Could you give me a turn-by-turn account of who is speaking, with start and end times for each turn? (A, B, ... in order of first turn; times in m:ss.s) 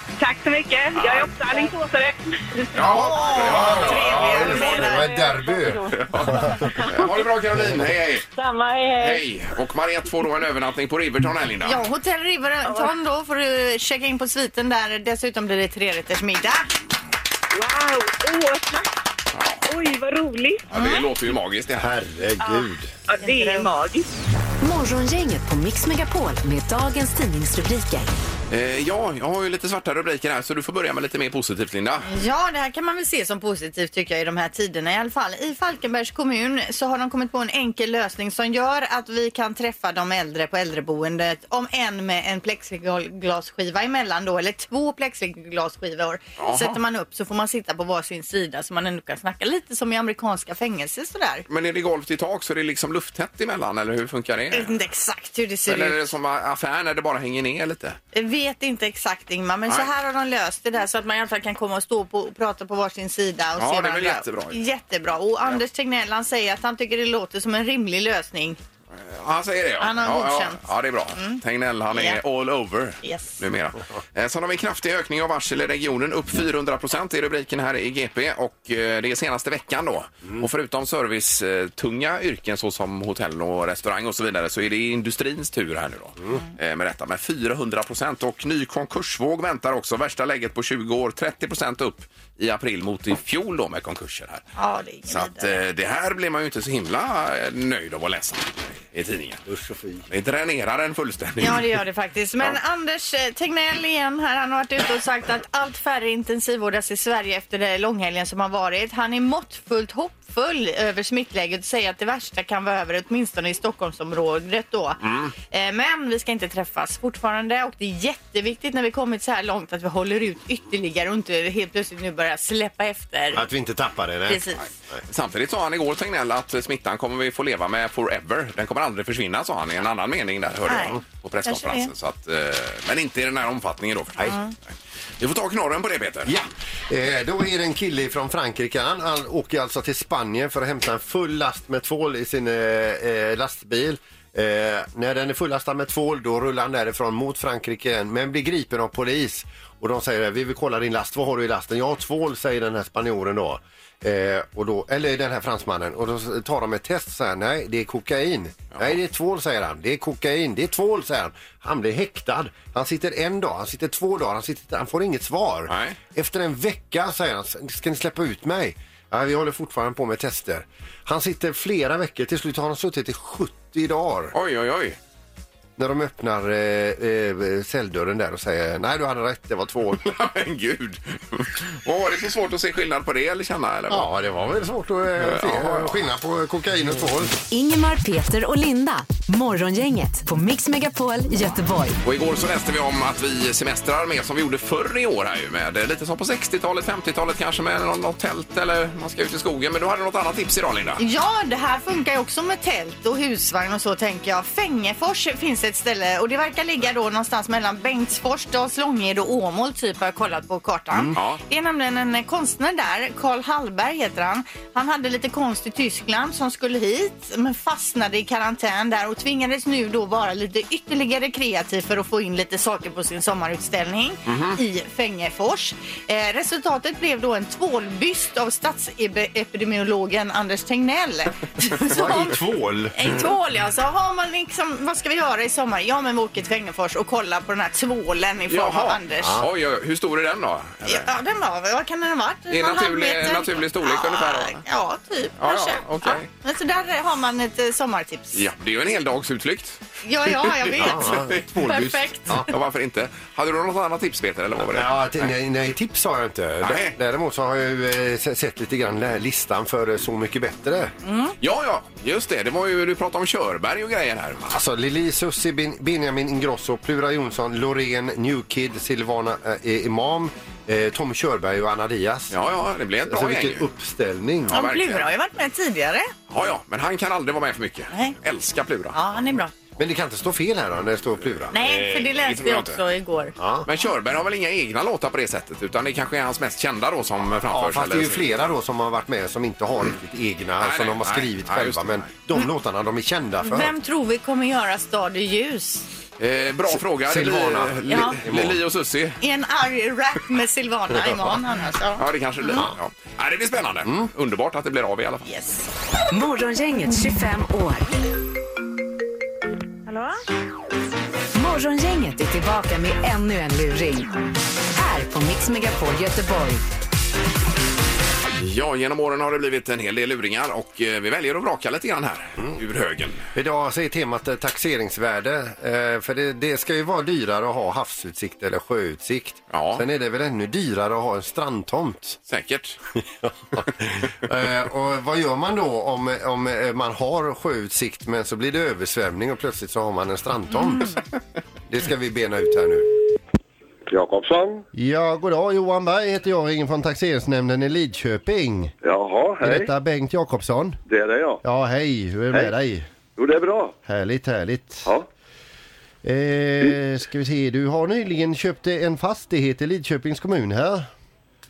0:00.2-0:04.8 A
0:01.0-0:01.3 B
0:02.7-0:04.5 B
0:02.9-0:05.1 C
0:03.5-0:07.0 D
0:04.3-0:06.9 E
0:06.0-0:08.2 B
0:07.6-0:07.8 D
0:08.3-0:09.2 E
0:09.0-0:11.8 B
0:11.6-0:16.7 C
0:17.5-0:18.9 A
0:19.3-0:19.6 B
0:19.7-0:21.0 A
0:20.7-0:21.9 B
0:20.7-0:21.0 C
0:21.8-0:22.9 D
0:22.4-0:24.1 A
0:23.2-0:23.7 C
0:24.6-0:28.1 F
0:28.5-0:32.1 B
0:32.0-0:51.4 C
0:46.4-0:46.8 B
0:51.5-0:54.7 B
0:54.5-0:56.1 C
0:55.7-0:58.0 B
0:58.1-1:08.6 C
1:03.6-1:04.6 B
1:09.0-1:34.4 B
1:09.8-1:10.6 C
1:11.1-1:11.4 C
1:11.9-1:12.2 C
1:13.0-1:13.3 C
1:34.6-1:35.6 C
1:35.1-1:39.4 B
1:39.5-1:40.0 D
1:40.1-1:41.7 B
1:41.4-2:03.4 C
1:55.0-1:55.3 B
2:03.3-2:05.0 D
2:04.3-2:04.6 C
2:05.1-2:14.4 B
2:10.7-2:11.9 C
2:15.2-2:16.4 B
2:16.2-2:54.3 D
2:45.7-2:46.0 B
2:54.3-2:55.0 B
2:55.8-3:00.1 D
3:00.0-3:04.1 B
3:03.9-3:07.4 D
3:05.2-3:06.0 B
3:07.5-3:12.0 F
3:12.0-3:21.0 B
3:21.0-3:52.4 C
3:31.1-3:31.4 B
3:44.3-3:44.6 B
3:51.9-3:53.3 D
3:52.9-3:59.4 C
3:58.5-4:01.1 B
3:59.2-3:59.5 D
4:00.8-4:08.4 C
4:02.5-4:04.6 B
4:05.4-4:06.3 B
4:08.3-4:15.2 B
4:10.0-4:12.5 C
4:10.8-4:12.5 D
4:14.6-4:20.9 D
4:16.6-4:16.9 B
4:21.0-4:21.3 C
4:21.4-4:24.6 B
4:24.5-4:32.4 D
4:32.3-4:33.6 B
4:33.0-4:34.6 D
4:34.5-4:35.1 B
4:34.5-4:36.1 C
4:36.3-4:39.0 B
4:37.9-4:38.2 C
4:38.9-4:39.5 C
4:39.8-4:41.5 D
4:41.2-4:42.8 B
4:41.5-4:43.3 C
4:43.4-4:43.7 D
4:43.6-4:48.2 B
4:47.5-4:53.7 D
4:50.6-4:52.1 B
4:53.4-4:55.8 C
4:56.2-4:59.2 B
4:56.7-4:58.6 D
4:57.9-4:58.2 C
4:59.2-5:02.6 C
5:02.0-5:05.2 B
5:05.2-5:05.6 C
5:06.1-5:07.8 F
5:11.3-5:14.1 F
5:14.7-5:16.6 F
5:18.3-5:23.2 B
5:23.3-5:32.2 D
5:29.5-5:29.8 B
5:32.3-5:32.8 B
5:33.2-5:41.0 D
5:41.7-5:42.9 D
5:43.9-5:44.6 G
5:44.7-5:48.7 D
5:48.8-5:49.7 G
5:49.4-5:50.8 D
5:50.9-5:51.4 G
5:51.4-5:52.9 D
5:53.2-5:53.8 G
5:53.8-5:54.9 D
5:56.0-6:00.9 D